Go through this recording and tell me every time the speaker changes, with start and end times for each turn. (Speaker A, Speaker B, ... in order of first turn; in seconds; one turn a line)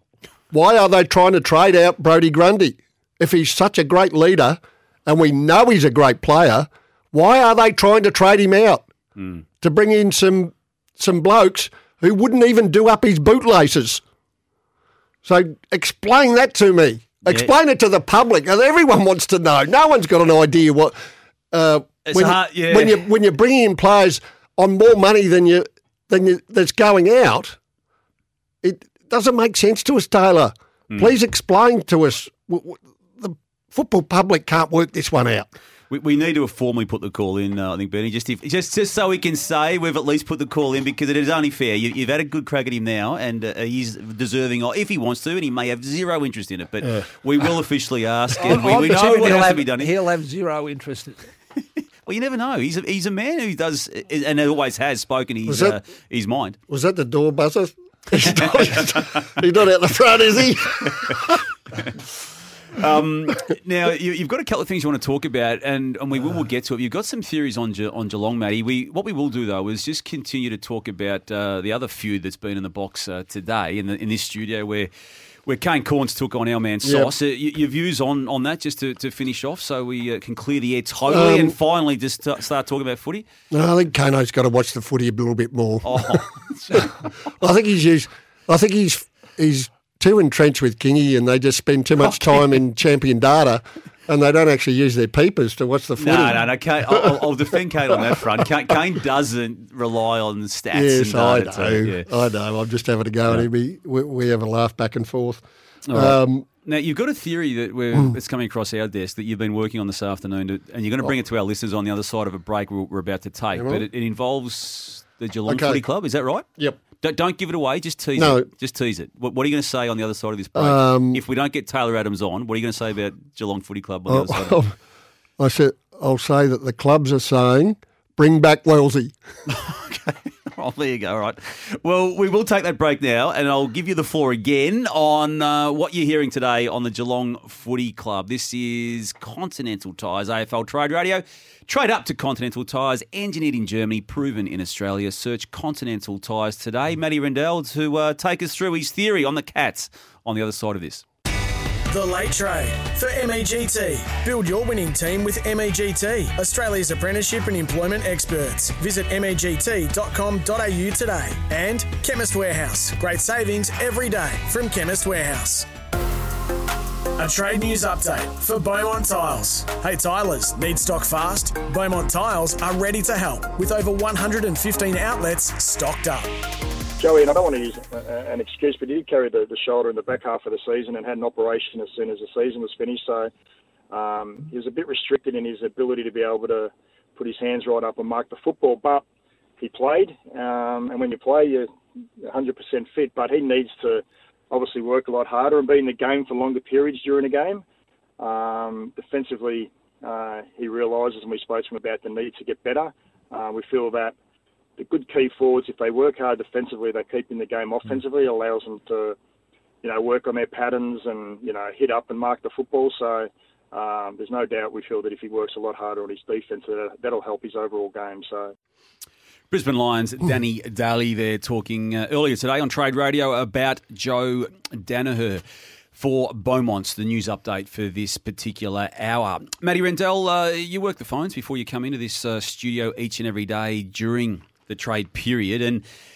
Speaker A: 0.5-8.9
Speaker B: 9.2-9.4
Speaker A: 9.6-14.0
Speaker A: 15.2-21.0
Speaker A: 21.5-27.6
Speaker B: 22.1-23.0
Speaker A: 28.6-35.5
Speaker B: 35.9-49.9
Speaker C: 48.4-51.3
Speaker B: 52.1-56.6
Speaker A: 55.5-55.8
Speaker A: 56.7-61.2
Speaker B: 58.2-59.1
Speaker B: 62.8-74.9
Speaker B: 75.5-83.3
Speaker A: 76.8-77.1
Speaker A: 81.1-81.5
Speaker A: 83.5-86.2
Speaker B: 85.8-86.9
Speaker A: 87.4-98.2
Speaker B: 96.0-102.1
Speaker A: 100.7-106.5
Speaker B: 105.9-116.5
Speaker A: 113.5-113.9
Speaker A: 115.5-115.8
Speaker B: 117.0-124.6
Speaker A: 118.2-118.5
Speaker A: 120.5-121.2
Speaker A: 124.1-124.8
Speaker A: 125.4-129.1
Speaker B: 129.5-151.0
Speaker D: 151.9-165.7
Speaker D: 167.2-176.3
Speaker E: 177.0-183.3
Speaker E: 183.9-189.1
Speaker E: 189.6-191.7
Speaker E: 192.2-197.6
Speaker E: 198.2-204.2
Speaker E: 204.8-209.2
Speaker E: 209.8-218.5
Speaker B: 219.5-225.4
Speaker B: 225.9-235.8